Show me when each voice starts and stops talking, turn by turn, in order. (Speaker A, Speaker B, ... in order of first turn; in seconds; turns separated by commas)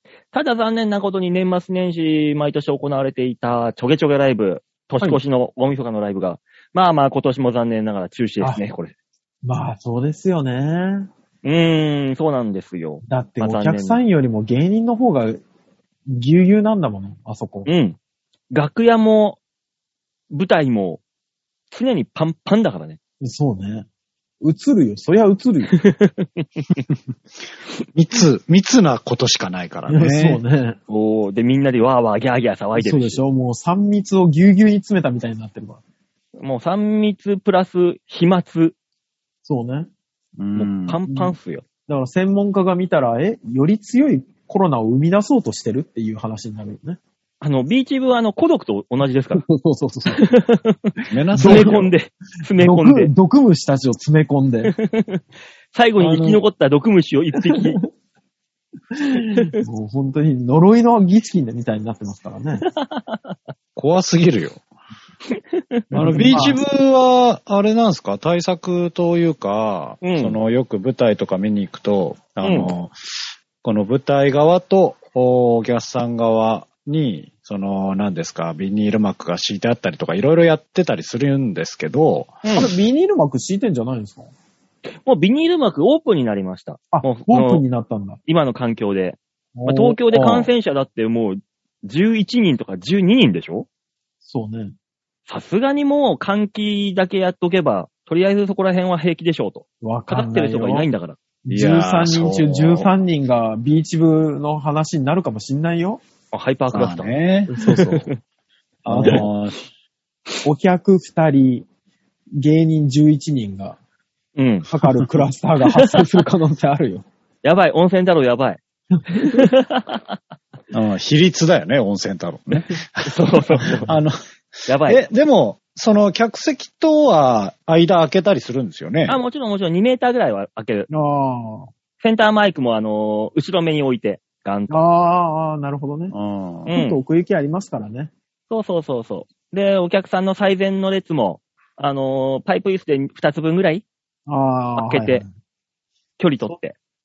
Speaker A: 0.3-8.9, Speaker B: 9.4-11.1, Speaker A: 11.4-14.0, Speaker B: 13.0-15.4, Speaker B: 16.1-17.7, Speaker A: 17.6-18.0, Speaker A: 18.5-19.4, Speaker A: 20.3-21.0, Speaker A: 21.7-23.0, Speaker B: 23.2-23.9, Speaker B: 24.4-25.7, Speaker A: 25.7-26.4, Speaker C: 27.9-30.4, Speaker B: 29.9-30.8, Speaker A: 30.9-33.2, Speaker B: 32.7-35.8, Speaker A: 36.4-38.8, Speaker B: 39.4-39.9, Speaker C: 40.4-41.0, Speaker A: 40.5-41.6, Speaker B: 41.1-41.3, Speaker B: 41.9-47.0, Speaker A: 47.4-49.5, Speaker B: 49.3-50.2, Speaker A: 50.1-53.1, Speaker C: 51.1-51.9, Speaker B: 51.3-51.8, Speaker B: 52.6-54.7, Speaker A: 54.6-55.2, Speaker A: 55.7-57.8, Speaker B: 56.0-56.4, Speaker B: 58.9-62.6, Speaker A: 59.2-59.6, Speaker A: 62.6-63.4, Speaker C: 63.8-64.6, Speaker A: 65.3-66.3, Speaker B: 65.9-66.6, Speaker C: 65.9-72.9, Speaker A: 70.0-70.4, Speaker A: 72.4-72.7, Speaker C: 73.6-82.4, Speaker A: 82.4-82.7, Speaker B: 82.5-84.3, Speaker A: 85.0-87.6, Speaker B: 86.9-88.2, Speaker A: 88.2-93.7, Speaker B: 89.5-90.5, Speaker B: 94.2-94.7, Speaker A: 95.3-101.2, Speaker B: 99.8-100.9, Speaker B: 101.4-106.0, Speaker C: 101.5-102.9, Speaker A: 106.3-108.2, Speaker C: 106.7-107.5, Speaker B: 107.5-108.1, Speaker C: 108.8-109.6, Speaker B: 108.8-109.3, Speaker B: 110.4-111.7, Speaker B: 112.4-113.8, Speaker A: 114.3-115.1, Speaker B: 114.7-117.0, Speaker A: 115.7-116.0, Speaker A: 117.4-118.6, Speaker B: 119.1-119.4, Speaker A: 119.1-120.2, Speaker C: 120.7-129.2, Speaker A: 123.0-123.9, Speaker A: 124.7-125.0, Speaker A: 129.1-130.9, Speaker B: 130.9-131.7, Speaker A: 132.0-134.8, Speaker B: 134.7-136.1, Speaker C: 136.1-136.7, Speaker A: 136.7-137.0, Speaker B: 136.7-138.1, Speaker A: 138.5-143.8, Speaker B: 144.3-145.3, Speaker A: 144.8-145.2, Speaker A: 146.2-146.7